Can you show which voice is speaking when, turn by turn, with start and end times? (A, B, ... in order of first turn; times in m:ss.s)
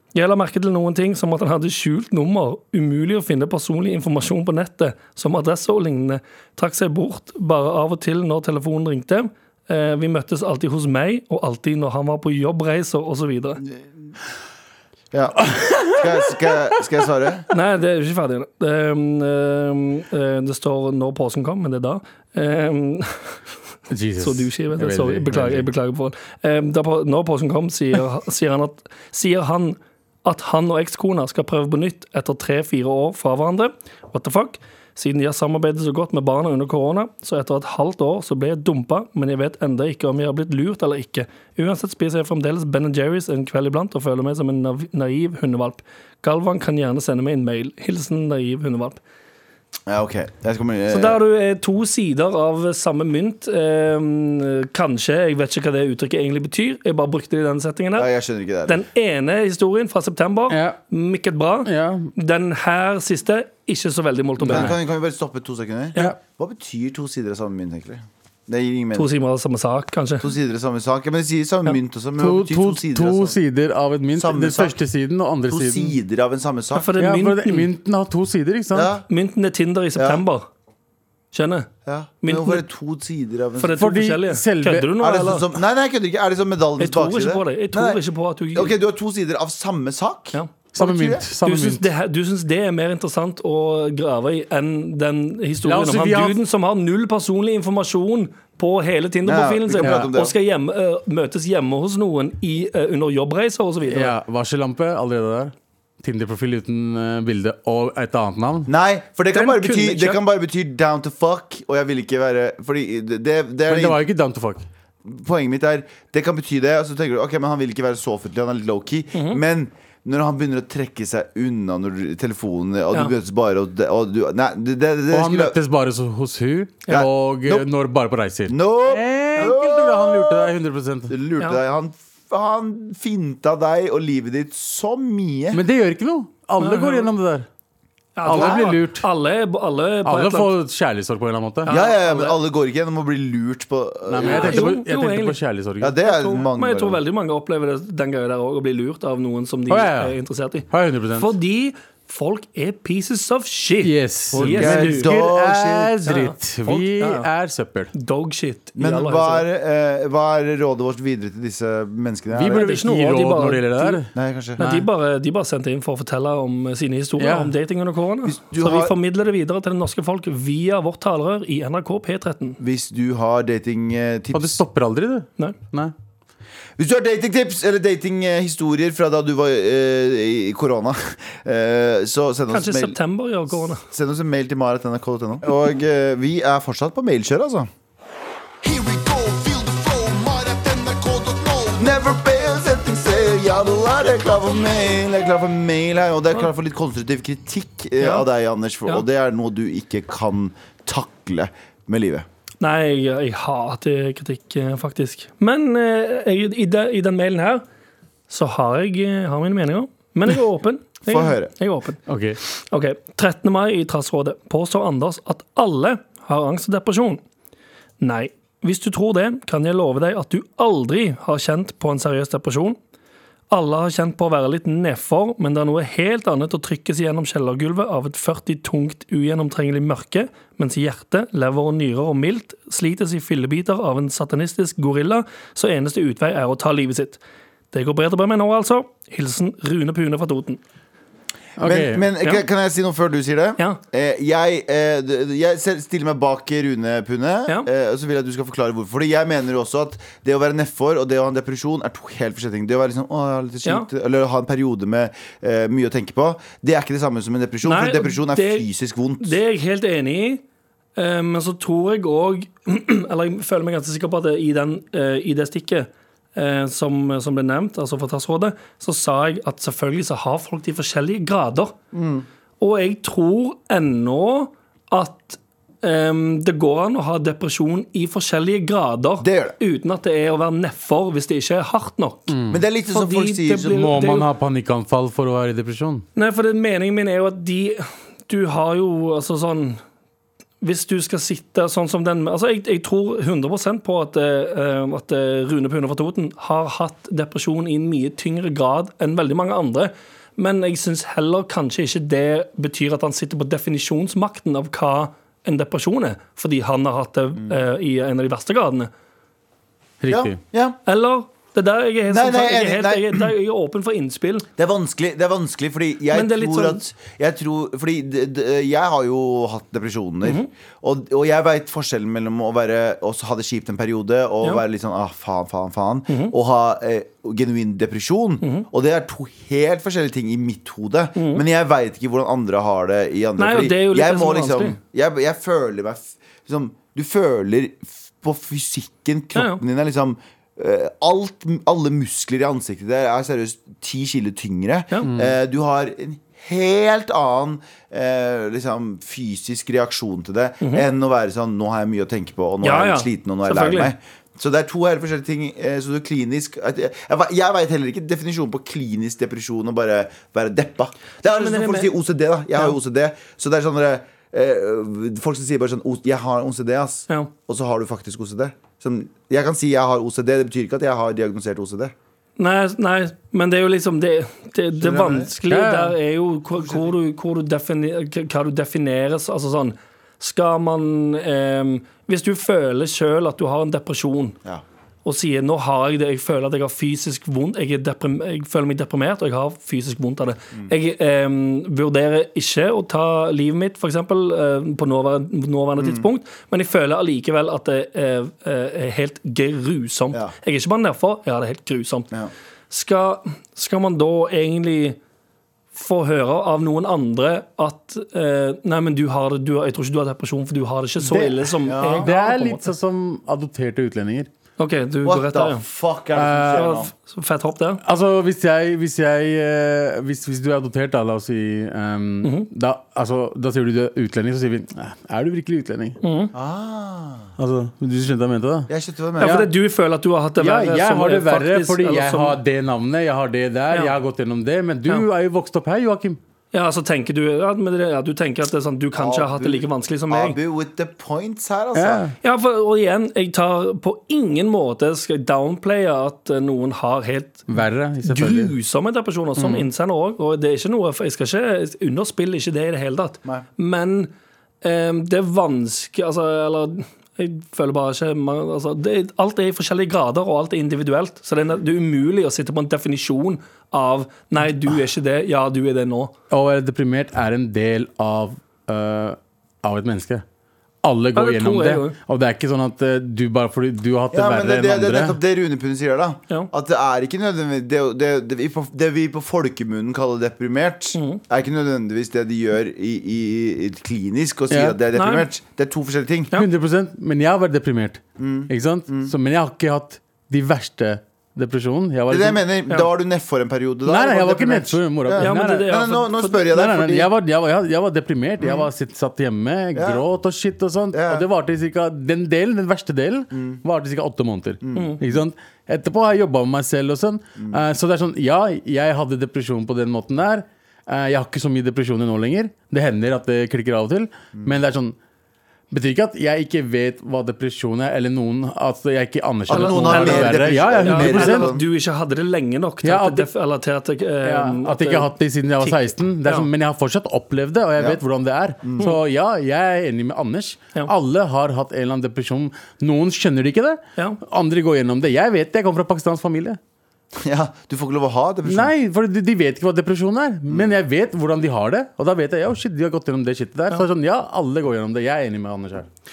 0:00.1-0:13.6 A
0:15.1-0:17.5 B
0:15.5-0:16.0 C
0:17.5-0:23.4 A
0:23.9-0:25.7 C
0:24.2-0:49.0 A
0:49.9-0:51.2 B
0:50.9-0:58.1 A
0:58.0-0:58.8 B
0:58.7-1:04.8 A
1:00.5-1:00.8 C
1:01.7-1:02.1 C
1:04.4-1:09.1 B
1:04.4-1:04.8 C
1:09.0-1:10.3 A
1:10.2-1:13.4 B
1:12.2-1:16.0 C
1:14.1-1:14.8 B
1:15.5-1:17.0 B
1:16.7-1:17.7 A
1:17.0-1:18.9 C
1:18.7-1:19.0 B
1:19.1-1:20.5 A
1:20.0-1:20.2 B
1:21.3-1:21.7 A
1:21.9-1:23.8 B
1:22.2-1:22.6 A
1:23.6-1:25.5 A
1:23.8-1:24.9 C
1:25.0-1:28.0 B
1:26.8-1:28.8 A
1:28.5-1:31.2 B
1:30.7-1:31.9 C
1:31.4-1:44.1 A
1:35.6-1:36.4 C
1:39.2-1:40.4 B
1:39.8-1:40.1 C
1:43.9-1:48.7 C
1:48.7-1:54.0 B
1:49.3-1:50.2 A
1:53.7-1:54.7 C
1:55.0-2:05.6 B
1:59.1-1:59.4 A
2:05.1-2:11.1 C
2:06.9-2:07.7 B
2:08.5-2:10.5 B
2:11.1-2:15.6 B
2:15.5-2:17.5 C
2:16.6-2:17.1 A
2:18.2-2:20.5 A
2:18.2-2:19.1 C
2:18.3-2:18.7 B
2:20.0-2:21.7 C
2:21.7-2:22.4 A
2:21.7-2:24.8 B
2:24.1-2:26.0 C
2:24.2-2:25.4 A
2:25.8-2:27.0 B
2:26.0-2:35.1 A
2:29.7-2:30.2 C
2:30.7-2:31.3 C
2:33.8-2:37.9 C
2:34.4-2:36.1 B
2:36.1-2:37.3 A
2:37.9-2:39.5 A
2:38.8-2:42.7 B
2:42.3-2:44.9 C
2:42.6-2:44.0 A
2:44.2-2:44.6 B
2:44.6-2:52.6 A
2:47.2-2:47.5 C
2:48.2-2:48.9 B
2:52.6-2:54.6 B
2:54.3-2:55.9 C
2:56.8-3:03.0 B
3:02.5-3:03.8 A
3:03.8-3:07.7 B
3:08.6-3:12.0 D
3:11.8-3:22.3 B
3:18.0-3:18.3 A
3:22.6-3:27.6 A
3:28.3-3:37.2 A
3:31.1-3:31.5 B
3:32.1-3:32.4 C
3:38.0-3:42.8 A
3:43.5-3:57.2 A
3:57.7-4:00.6 A
4:01.6-4:02.1 C
4:01.6-4:19.4 B
4:17.6-4:18.7 A
4:19.2-4:20.4 A
4:21.0-4:31.8 A
4:31.9-4:32.3 B
4:32.6-4:42.4 A
4:39.2-4:39.6 B
4:42.3-4:42.6 C
4:42.5-4:43.9 B
4:42.9-4:44.3 A
4:43.7-4:46.1 C
4:46.2-4:49.8 A
4:50.6-5:08.9 A
5:10.0-5:10.4 C
5:10.1-5:10.8 B
5:10.9-5:14.5 A
5:12.1-5:13.3 B
5:14.6-6:11.9 B
5:16.1-5:16.9 A
5:20.2-5:20.5 A
5:26.1-5:26.3 A
5:31.2-5:31.4 A
5:33.4-5:34.8 A
5:39.4-5:39.6 A
5:45.1-5:45.3 C
5:50.6-5:50.9 A
5:52.6-5:53.9 A
6:01.2-6:02.0 A
6:12.4-6:24.4 A
6:14.8-6:15.3 B
6:15.5-6:16.0 C
6:16.6-6:16.9 B
6:25.0-6:42.1 A
6:35.8-6:36.1 B
6:42.7-6:45.0 A
6:45.7-6:52.7 A
6:51.6-6:52.1 B
6:52.0-6:54.3 C
6:54.6-6:55.6 A
6:55.0-6:56.9 B
6:56.1-6:56.7 C
6:56.5-6:57.8 A
6:57.8-7:06.0 C
7:02.2-7:02.5 A
7:06.0-7:06.3 A
7:06.3-7:07.3 B
7:07.4-7:09.5 C
7:08.7-7:09.5 B
7:09.2-7:12.4 A
7:10.4-7:16.2 C
7:16.5-7:20.4 A
7:19.0-7:22.1 B
7:21.8-7:22.2 C
7:22.2-7:27.5 A
7:27.5-7:28.5 C
7:28.0-7:46.1 A
7:29.4-7:29.7 C
7:46.3-7:50.2 C
7:50.8-7:55.2 C
7:51.2-7:52.0 A
7:54.1-8:06.3 B
8:01.0-8:01.2 A
8:04.5-8:04.8 C
8:04.9-8:05.3 A
8:06.4-8:12.4 C
8:08.2-8:09.1 B
8:12.1-8:17.1 B
8:13.9-8:15.8 C
8:15.2-8:16.4 A
8:16.5-8:35.0 C
8:18.4-8:18.7 B
8:19.8-8:20.0 B
8:20.9-8:21.3 B
8:23.3-8:23.6 B
8:24.6-8:25.0 B
8:24.8-8:25.0 A
8:35.7-8:41.5 C
8:39.5-8:41.6 B
8:39.5-8:46.5 A
8:42.8-8:43.3 C
8:44.2-8:56.6 C
8:48.6-8:48.9 B
8:57.2-8:58.7 B
8:58.5-9:05.9 C
9:00.5-9:00.7 B